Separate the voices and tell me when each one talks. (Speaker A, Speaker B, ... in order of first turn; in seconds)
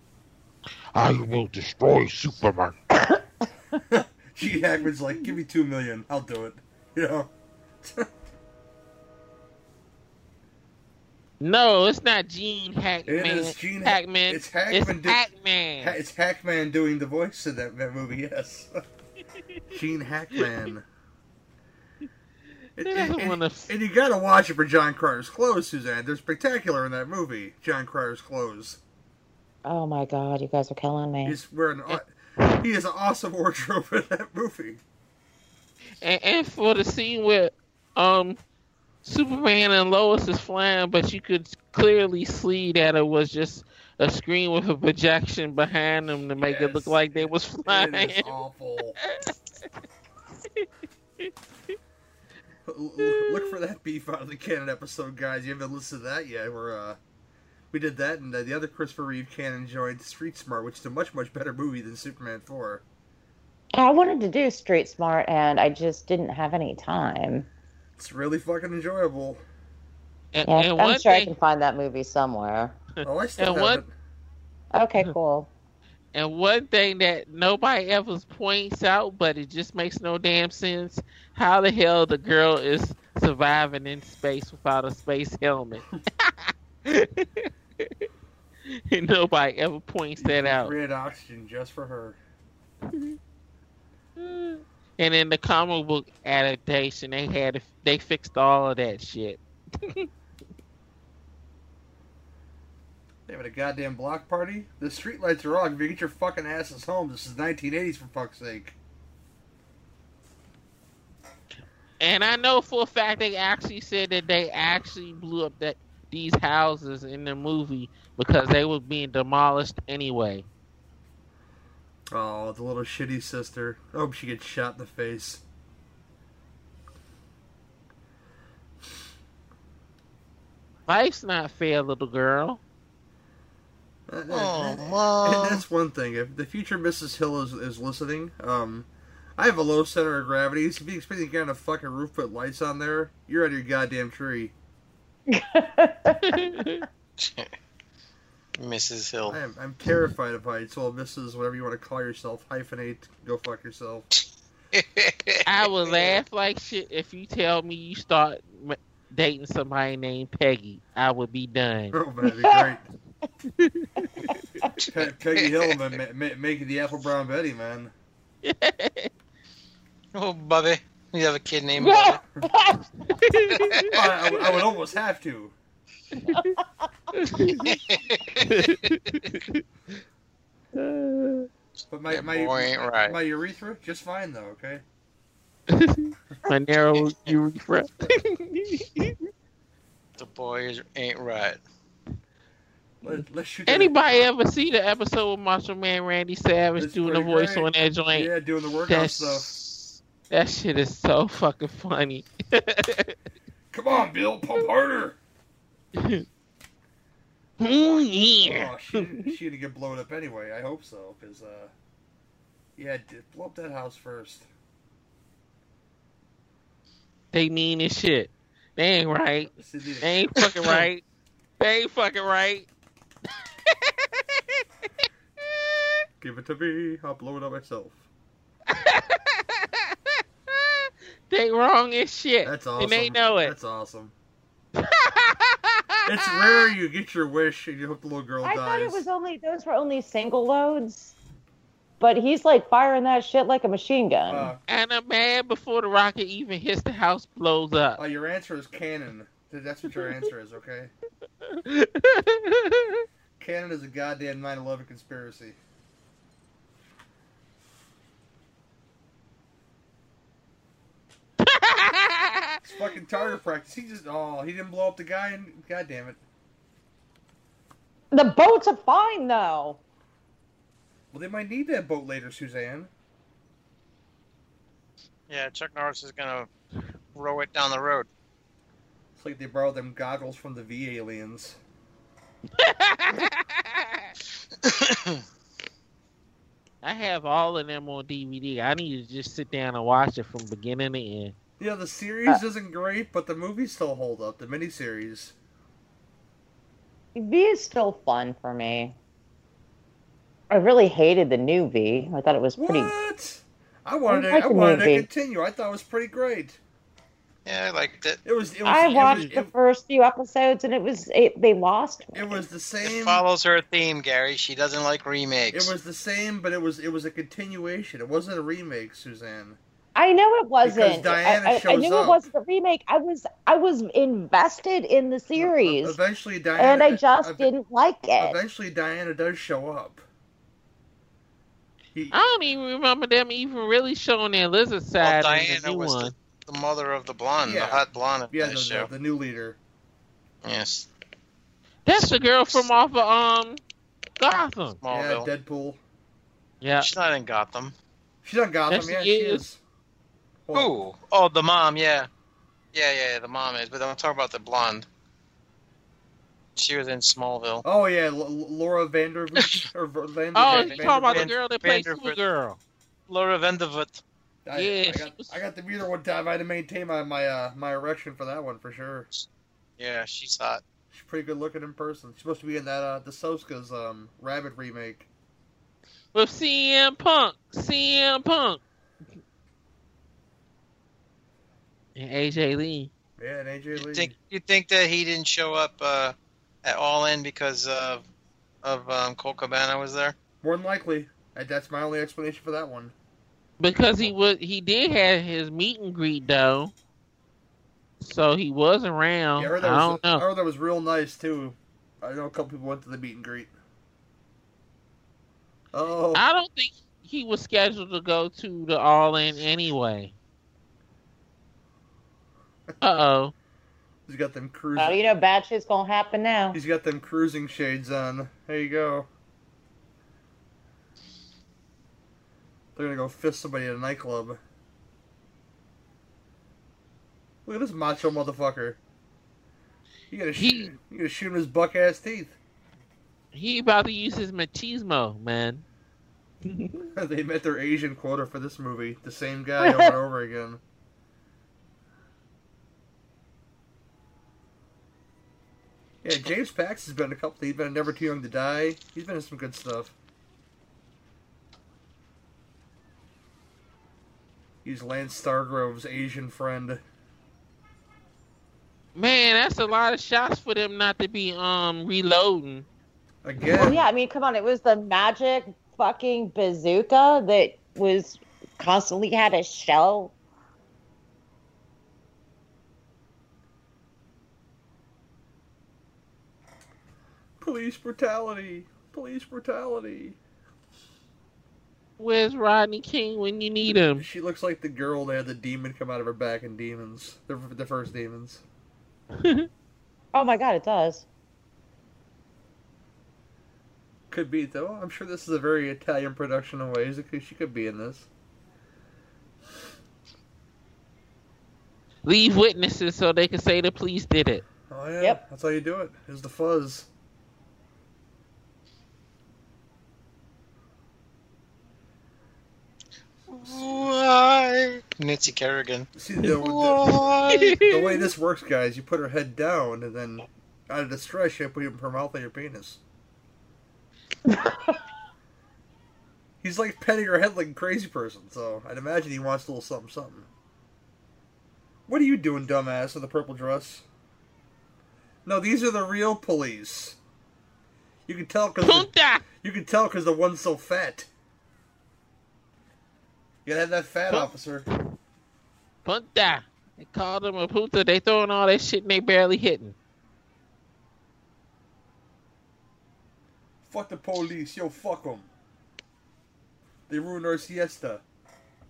Speaker A: 0.9-2.8, 11.4-16.0, 22.9-23.7, 36.0-38.4, 39.0-48.3, 49.0-49.3, 53.0-53.5, 70.3-71.3, 73.4-73.8, 76.1-88.0, 88.7-90.8, 92.9-93.2, 94.2-100.1, 112.0-120.5, 130.9-132.6, 146.2-146.8, 155.5-162.0, 163.6-164.4, 168.4-169.1, 173.2-173.9, 176.2-176.6, 177.1-177.8, 178.5-179.6, 180.8-181.5, 185.7-189.2, 193.7-198.3, 198.9-203.2, 206.0-206.2, 207.6-209.3, 217.3-219.5, 220.0-221.0, 221.6-222.7, 223.7-224.6, 225.5-225.9, 228.7-233.5, 234.8-236.7, 244.7-248.0, 251.4-253.1, 261.4-262.6, 282.6-284.1, 286.8-291.3, 332.1-336.1, 341.9-343.6, 344.2-344.8, 346.6-346.9, 348.7-349.4, 360.4-362.6, 364.6-365.4, 376.1-378.6, 382.0-382.9, 393.6-396.7, 398.0-400.2, 406.1-410.1, 412.8-413.3, 430.4-430.8, 433.3-435.6, 436.4-436.9, 458.9-462.7, 482.0-484.1, 489.2-489.5, 502.1-504.4, 517.4-518.1, 538.6-539.2, 545.9-549.8
Speaker B: 3.9-7.3, 7.8-8.1, 13.1-15.2, 15.8-18.7, 19.7-20.9, 22.8-28.8, 31.2-34.8, 46.4-49.0, 52.7-57.0, 57.7-62.8, 68.0-69.4, 73.0-73.9, 90.2-92.2, 103.3-108.8, 122.1-125.4, 134.1-144.6, 149.3-154.1, 155.9-156.2, 161.9-162.9, 164.9-167.9, 173.9-175.6, 181.9-184.8, 193.0-193.9, 196.8-199.5, 203.7-205.2, 207.6-211.7, 212.8-214.5, 219.6-220.2, 226.2-228.1, 232.4-234.1, 236.1-239.1, 244.3-244.6, 248.0-250.9, 253.4-255.6, 262.6-266.2, 271.1-272.9, 279.2-281.6, 291.6-295.4, 302.6-306.6, 308.2-309.5, 312.1-313.2, 315.5-319.6, 320.6-322.2, 325.4-327.5, 328.2-330.0, 331.9-332.2, 337.4-339.6, 344.9-345.8, 348.2-349.6, 357.6-361.3, 364.5-369.1, 370.9-375.1, 383.2-384.1, 390.4-392.9, 399.4-403.5, 405.7-406.2, 414.1-415.0, 416.5-419.1, 422.8-424.4, 427.5-428.8, 430.1-432.4, 436.9-440.6, 446.0-449.9, 454.6-456.8, 463.2-463.9, 477.4-480.2, 484.0-488.4, 494.1-498.1, 504.7-506.9, 516.0-517.0, 517.7-522.8, 526.4-530.3, 531.9-533.9, 535.2-537.0, 538.1-541.1, 543.5-544.7, 553.6-555.3, 556.9-558.0
Speaker C: 29.6-31.4, 63.7-67.5, 70.5-72.8, 74.7-75.5, 145.3-146.8, 164.2-164.7, 171.8-172.8, 176.3-176.9, 238.4-241.1, 242.0-244.5, 268.1-269.8, 297.1-299.0, 300.5-302.9, 304.1-305.1, 308.6-312.4, 319.9-326.0, 326.6-328.4, 414.8-416.6, 439.6-439.9, 463.5-470.1, 490.1-491.1, 524.3-524.8
Speaker D: 134.3-135.6, 147.2-147.5, 148.6-149.4, 154.2-155.4, 164.8-165.8, 170.1-172.2, 173.3-174.1, 177.7-178.9, 182.1-183.2, 187.0-187.4, 190.2-191.6, 220.4-220.9, 275.3-276.5, 277.1-278.1, 284.6-285.2, 307.4-308.2, 312.8-315.7, 335.0-338.9, 340.4-340.9, 341.9-342.7, 344.8-345.3, 346.8-347.8, 350.5-352.1, 352.7-354.9, 356.6-357.6, 360.4-362.2, 363.1-364.0, 369.8-370.6, 383.7-388.1, 388.6-390.2, 513.3-517.6